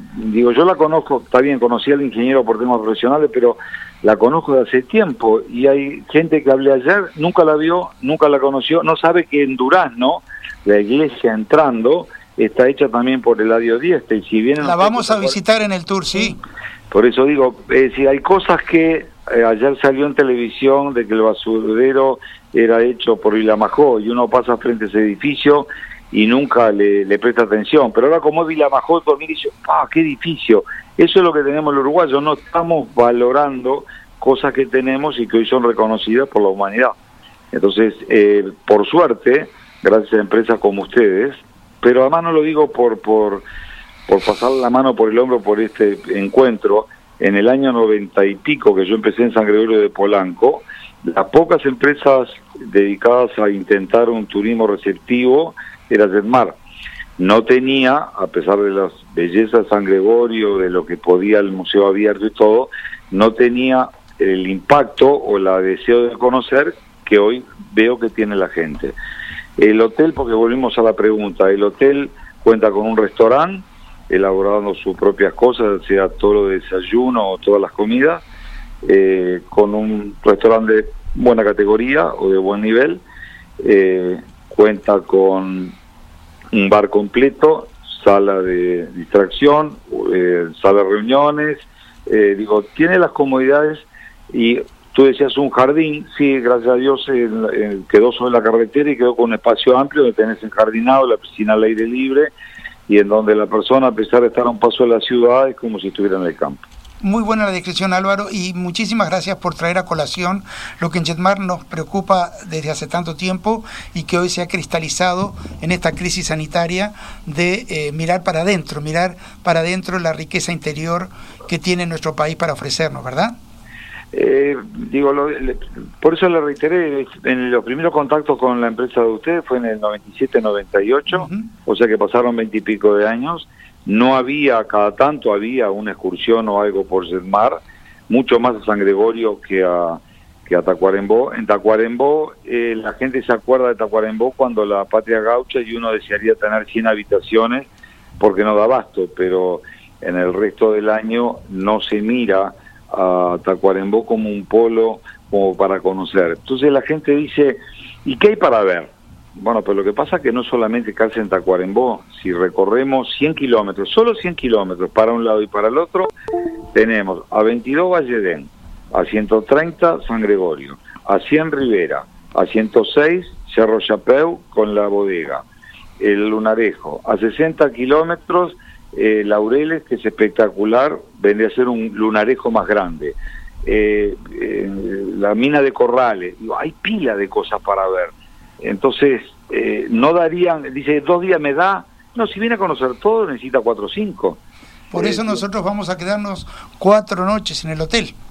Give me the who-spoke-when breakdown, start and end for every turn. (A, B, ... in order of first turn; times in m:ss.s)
0:00.2-0:15.4 A
0:14.6-0:16.4 B
0:16.9-0:37.0 A
0:37.5-0:43.4 A
0:44.1-0:56.6 A
0:57.2-1:09.0 A
1:09.6-1:18.2 A
1:18.8-1:23.0 A
1:23.6-1:25.8 A
1:26.5-1:42.3 A
1:42.9-1:46.6 A
1:47.0-2:03.4 B
2:04.1-2:27.7 A
2:11.1-2:11.5 B
2:28.2-2:46.1 A
2:46.7-2:55.4 A
2:56.0-3:14.4 A
3:14.9-3:18.2 B
3:14.9-3:15.4 A